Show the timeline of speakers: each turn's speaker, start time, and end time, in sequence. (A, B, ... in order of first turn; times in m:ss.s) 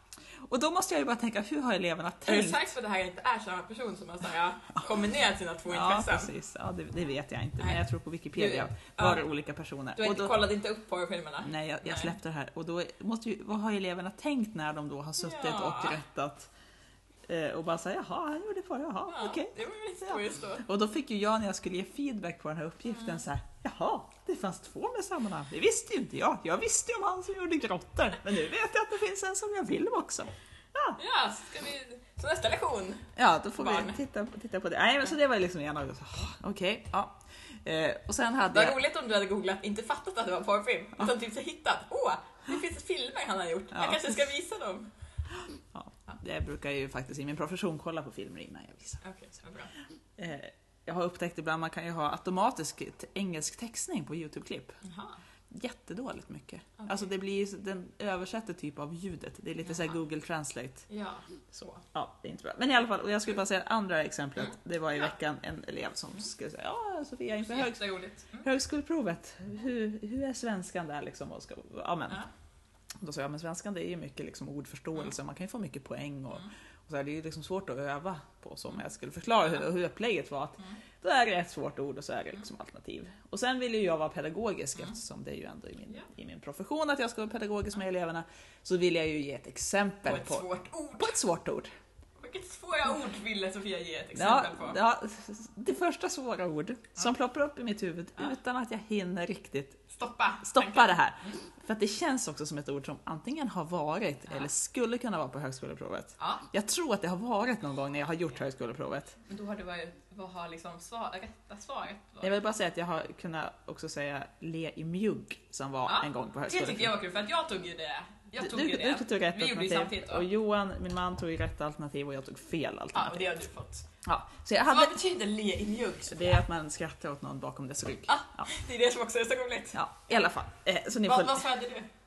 0:00.4-0:02.6 A
0:02.3-0:06.3 B
0:05.7-0:10.3 A
0:08.4-0:09.2 B
0:10.0-0:12.1 B
0:11.4-0:16.5 A
0:15.2-0:16.0 B
0:17.3-0:31.0 A
0:19.1-0:20.7 B
0:23.0-0:23.2 B
0:31.0-0:34.0 B
0:33.2-0:38.8 A
0:38.5-0:44.9 B
0:43.7-0:44.2 A
0:45.5-0:49.0 A
0:49.0-0:49.7 B
0:50.2-0:54.8 A
0:54.8-0:55.2 B
0:55.5-1:00.9 A
1:00.9-1:01.8 B
1:01.5-1:12.3 A
1:07.4-1:08.5 B
1:13.0-1:30.5 A
1:30.0-1:31.2 B
1:31.0-1:31.7 A
1:32.2-1:34.8 B
1:34.2-1:39.8 A
1:39.9-1:41.0 B
1:40.4-1:49.2 A
1:46.2-1:46.4 B
1:49.3-1:52.3 B
1:52.2-1:57.0 A
1:55.9-2:00.3 B
1:58.4-2:03.3 A
2:02.9-2:03.9 B
2:04.0-2:05.0 A
2:04.6-2:06.4 B
2:06.1-2:08.5 A
2:08.1-2:09.8 B
2:09.7-2:11.5 A
2:11.0-2:11.9 B